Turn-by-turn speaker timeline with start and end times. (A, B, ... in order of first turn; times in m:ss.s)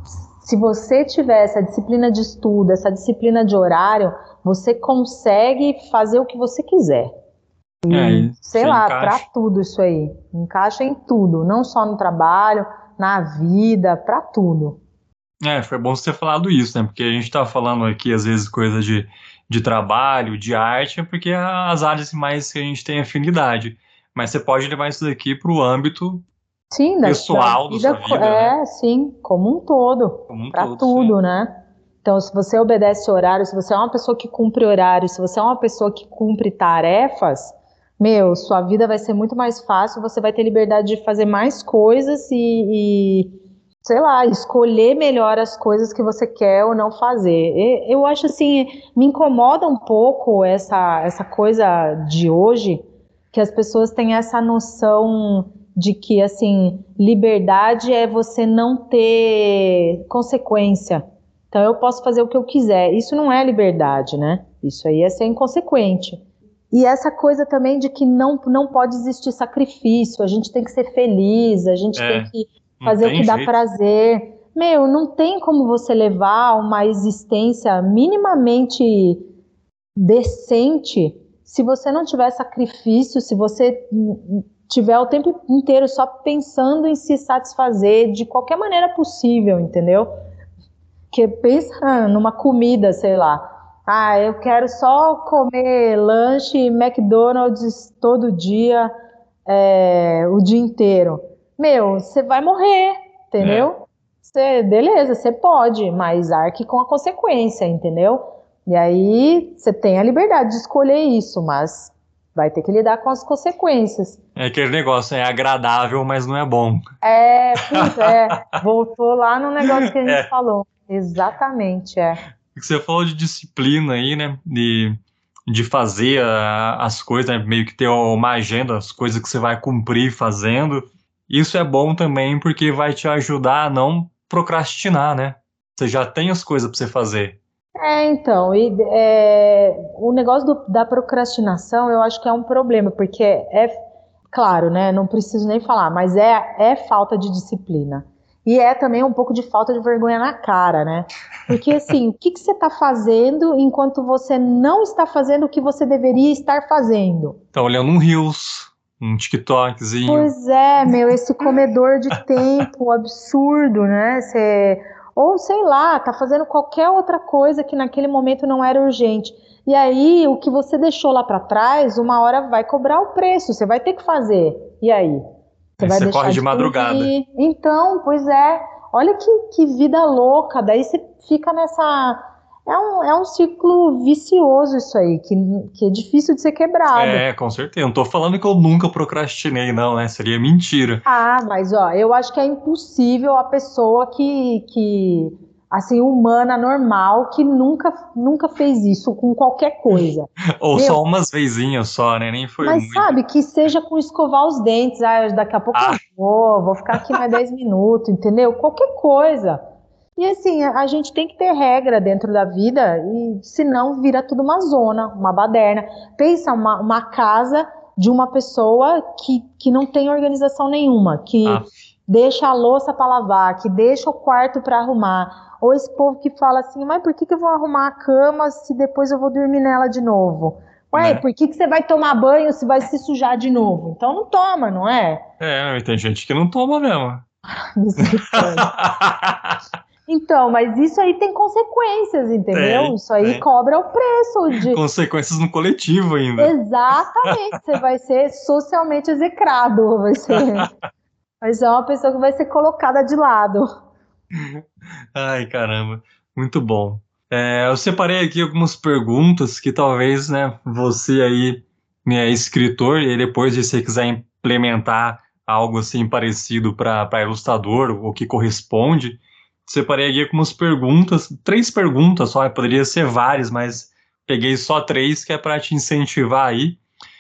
0:00.4-0:07.1 A
0:07.8-0:14.8 A
0:07.9-0:09.2 B
0:15.4-0:26.2 B
0:26.7-1:06.2 A
0:27.0-0:28.6 B
0:30.3-0:31.2 B
1:06.7-1:19.2 A
1:11.9-1:12.3 B
1:12.8-1:13.5 B
1:20.0-1:30.1 A
1:31.1-1:38.9 A
1:39.5-1:54.2 A
1:43.4-1:43.7 B
1:54.4-1:56.8 B
1:57.0-2:02.2 A
1:57.8-1:58.4 B
1:59.8-2:00.2 B
2:02.5-2:05.0 B
2:05.5-2:17.4 B
2:17.8-2:23.7 A
2:24.3-2:37.4 A
2:37.5-2:40.3 B
2:40.0-2:55.2 A
2:55.8-3:07.2 A
2:55.8-2:57.1 B
3:06.9-3:11.0 B
3:11.0-3:21.0 A
3:20.6-3:23.1 B
3:22.6-3:29.6 A
3:25.7-3:26.0 B
3:27.0-3:27.4 B
3:30.2-3:55.2 A
3:41.4-3:41.7 B
3:50.9-3:51.2 B
3:55.4-3:57.2 B
3:57.5-3:58.7 A
3:58.0-3:59.6 B
4:00.1-4:04.8 A
4:02.5-4:03.4 B
4:04.7-4:06.5 B
4:06.4-4:10.7 A
4:10.3-4:10.6 B
4:11.4-4:13.6 A
4:14.3-4:36.8 B